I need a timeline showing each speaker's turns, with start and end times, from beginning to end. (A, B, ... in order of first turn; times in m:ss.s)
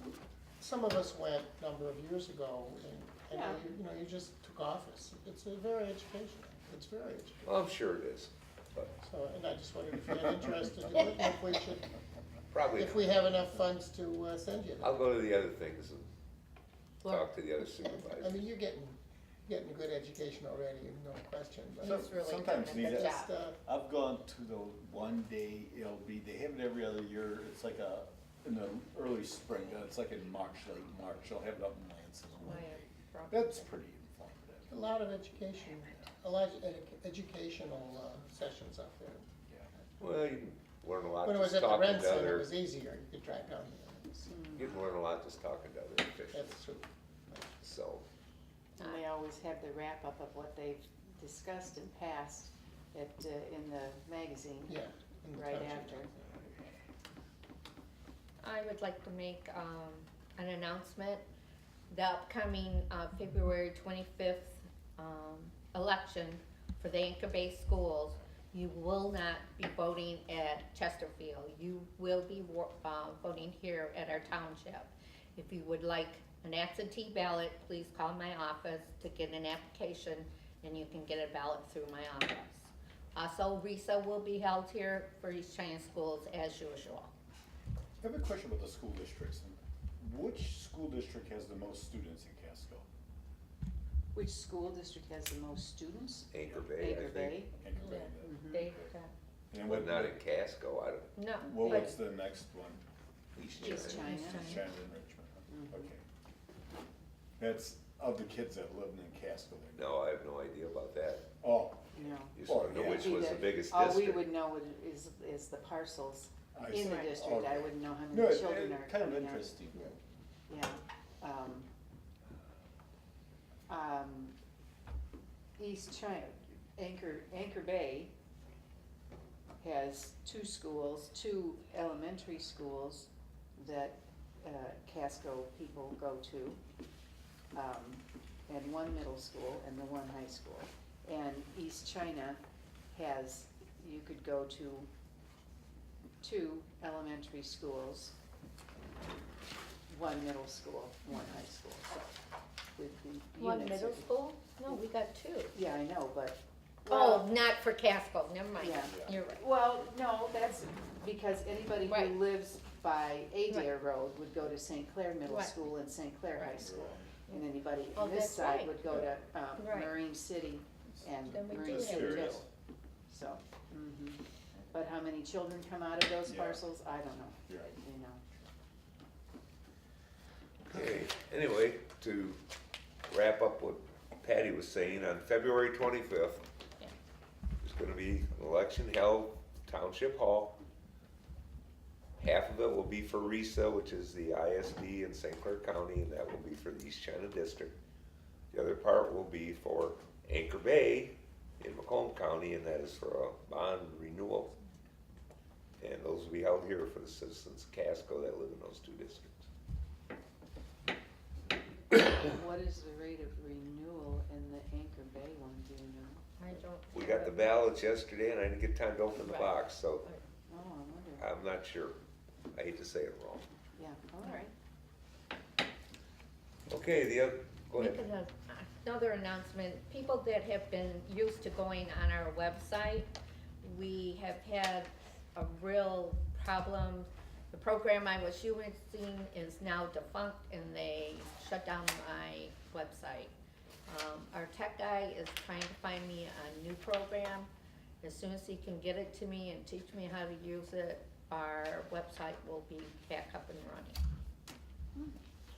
0:00.6-0:07.5 A
0:03.3-0:03.6 B
0:07.4-0:08.9 C
0:09.0-0:11.9 A
0:12.5-0:13.2 C
0:12.7-0:15.0 A
0:14.8-0:16.1 C
0:17.0-0:17.3 D
0:17.0-0:18.4 C
0:17.6-0:22.1 A
0:21.8-0:23.3 D
0:21.8-0:34.8 E
0:22.8-0:23.6 A
0:32.4-0:33.6 D
0:34.7-0:39.3 A
0:40.0-0:42.5 C
0:41.2-0:44.6 A
0:44.3-0:44.7 B
0:44.5-0:46.5 C
0:46.3-0:47.6 A
0:47.6-0:48.0 C
0:48.8-0:54.8 B
0:54.7-0:56.1 A
0:55.3-0:56.1 B
0:58.4-1:01.2 D
1:01.9-1:27.1 D
1:28.0-1:32.8 E
1:34.1-1:37.5 B
1:36.3-1:37.4 C
1:37.5-1:38.9 E
1:37.8-1:39.1 D
1:38.2-1:38.6 B
1:39.5-1:40.2 E
1:39.6-1:41.3 C
1:41.2-1:42.0 D
1:41.4-1:42.8 E
1:43.4-1:44.2 C
1:43.5-1:46.0 E
1:43.6-1:44.6 B
1:44.0-1:44.6 D
1:45.5-1:45.9 B
1:47.4-1:49.8 E
1:49.8-1:51.3 C
1:51.4-1:53.2 E
1:51.9-1:59.5 B
1:52.3-1:54.3 C
1:56.5-1:59.8 E
1:56.7-1:57.2 D
1:59.7-2:00.0 A
2:00.5-2:01.7 B
2:03.7-2:04.4 B
2:05.6-2:08.1 B
2:09.6-2:16.6 B
2:17.5-2:22.4 B
2:22.9-2:24.9 B
2:26.2-2:28.1 B
2:29.9-2:32.1 B
2:32.8-2:34.1 B
2:33.4-2:35.5 D
2:35.5-2:37.3 B
2:36.9-2:39.4 D
2:38.6-2:52.5 B
2:38.8-2:39.1 E
2:41.8-2:42.2 D
2:45.2-2:45.6 D
2:46.6-2:47.1 E
2:47.3-2:48.7 D
2:48.9-2:49.1 E
2:49.6-2:49.9 D
2:51.2-2:52.4 D
2:51.2-2:52.4 E
2:53.1-2:54.2 B
2:54.7-2:58.2 B
2:56.2-2:56.6 E
2:57.4-2:57.8 E
3:00.7-3:02.4 C
3:03.1-3:06.4 C
3:07.6-3:10.6 C
3:12.2-3:17.7 C
3:18.5-3:24.5 C
3:25.8-3:29.4 C
3:31.9-3:36.2 B
3:36.4-3:37.5 D
3:36.9-3:40.1 C
3:39.2-3:40.2 D
3:40.5-3:41.2 B
3:41.2-3:42.0 C
3:42.5-3:43.5 C
3:43.8-3:44.5 B
3:46.7-3:48.0 C
3:47.7-3:53.1 D
3:53.6-4:03.3 D
4:03.9-4:07.5 D
4:08.0-4:14.0 D